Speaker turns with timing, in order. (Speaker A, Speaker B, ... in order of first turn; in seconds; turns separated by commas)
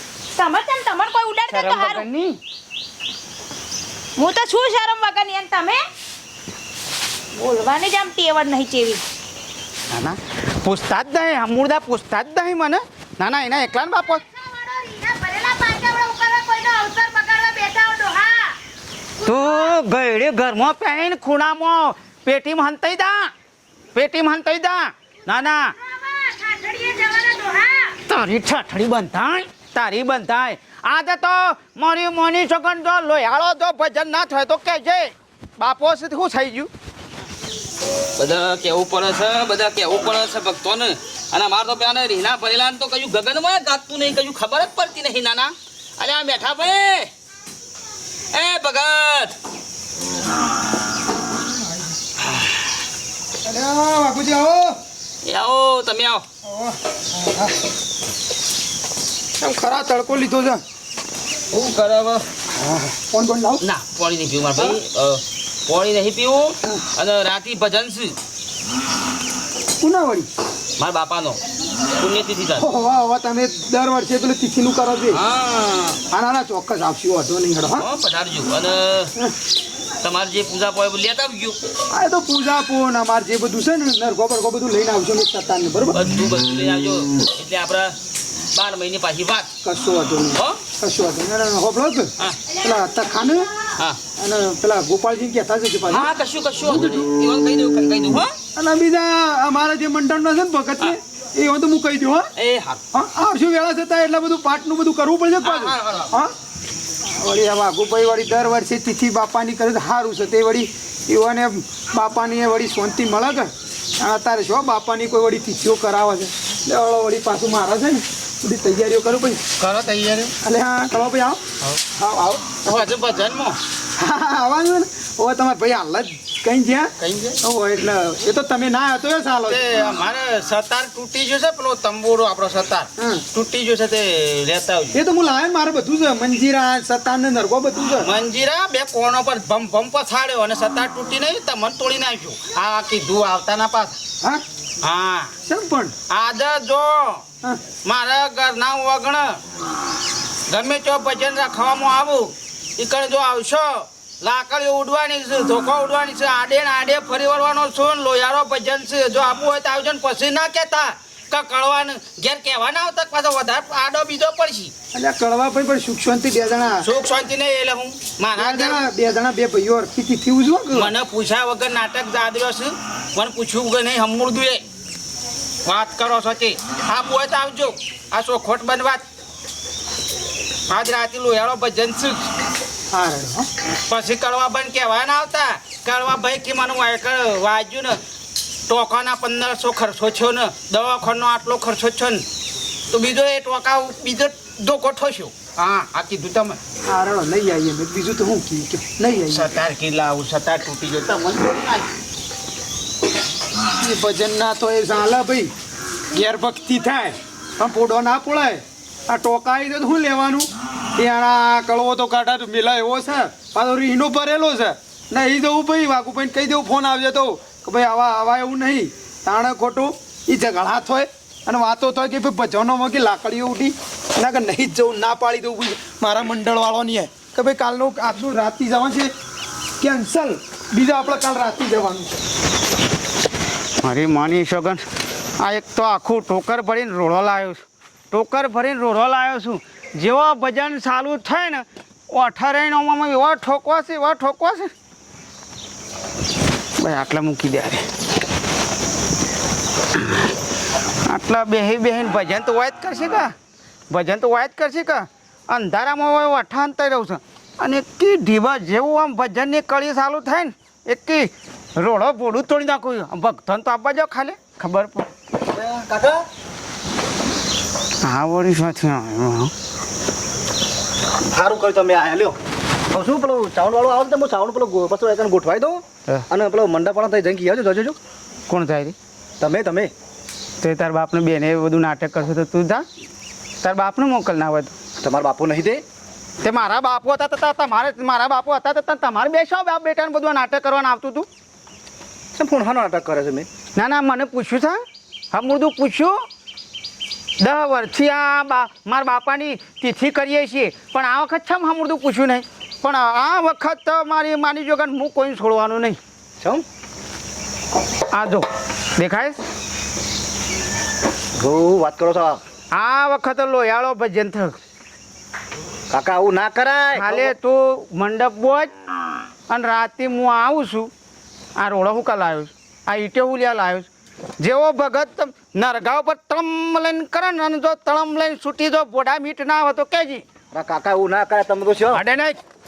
Speaker A: 0.3-2.0, Speaker B: 1.5-2.4, Speaker A: 4.2-5.8, Speaker A: 7.3-9.0, Speaker B: 9.9-14.2, Speaker A: 14.3-18.5, Speaker B: 19.2-23.3, Speaker A: 19.2-19.7, Speaker B: 23.9-25.7, Speaker A: 25.7-27.9, Speaker B: 28.1-36.7, Speaker C: 38.2-47.1, Speaker C: 48.3-49.4, Speaker D: 53.4-54.8, Speaker C: 55.2-56.2, Speaker D: 56.4-56.8, Speaker D: 59.4-60.6, Speaker C: 61.5-62.2, Speaker D: 62.5-63.6, Speaker C: 63.6-68.2, Speaker D: 69.8-70.3, Speaker C: 70.8-71.4, Speaker C: 72.0-72.7, Speaker D: 72.5-75.2, Speaker C: 75.1-76.0, Speaker D: 76.1-77.9, Speaker C: 77.8-79.1, Speaker C: 80.0-81.6, Speaker D: 81.9-86.1, Speaker C: 85.9-87.9, Speaker C: 88.5-89.5, Speaker D: 89.6-93.5, Speaker D: 94.2-96.2, Speaker C: 95.9-98.3, Speaker D: 98.5-102.3, Speaker C: 102.3-102.8, Speaker D: 102.9-106.3, Speaker C: 105.4-106.1, Speaker D: 107.1-119.4, Speaker B: 119.6-120.3, Speaker D: 120.4-121.4, Speaker B: 121.7-123.6, Speaker D: 124.0-129.6, Speaker B: 127.0-127.4, Speaker B: 129.5-134.9, Speaker D: 133.0-133.2, Speaker D: 134.9-138.1, Speaker B: 138.0-144.0, Speaker B: 144.8-145.3, Speaker D: 145.4-145.9, Speaker B: 146.1-147.2, Speaker B: 147.8-149.4, Speaker B: 150.5-164.7, Speaker D: 164.9-166.9, Speaker B: 166.8-168.8, Speaker D: 168.3-170.9, Speaker B: 170.7-174.6, Speaker B: 175.7-179.0, Speaker B: 180.7-182.3, Speaker D: 182.9-183.5, Speaker B: 183.9-188.0, Speaker B: 188.7-192.2, Speaker B: 192.9-196.6, Speaker D: 196.9-199.5, Speaker B: 199.3-201.9, Speaker D: 203.8-205.5, Speaker D: 206.1-229.1, Speaker D: 229.8-232.1, Speaker B: 233.8-234.8, Speaker B: 235.4-244.7, Speaker B: 246.8-247.9, Speaker B: 249.9-250.3, Speaker B: 251.1-253.3, Speaker B: 253.9-265.1, Speaker E: 265.4-266.2, Speaker B: 268.0-269.5, Speaker E: 271.3-272.4, Speaker E: 272.9-278.0, Speaker B: 278.5-278.9, Speaker E: 279.4-279.9, Speaker B: 280.6-282.8, Speaker B: 283.6-284.7, Speaker E: 285.0-285.8, Speaker B: 286.4-291.3, Speaker E: 292.3-293.5, Speaker B: 293.8-294.8, Speaker B: 295.3-296.1, Speaker B: 297.4-306.0, Speaker B: 308.1-309.4, Speaker E: 311.4-312.4, Speaker B: 312.7-314.6, Speaker E: 315.9-317.3, Speaker B: 316.9-318.7, Speaker B: 319.5-320.9, Speaker B: 321.6-323.9, Speaker B: 324.4-330.2, Speaker E: 330.5-332.0, Speaker B: 331.9-332.4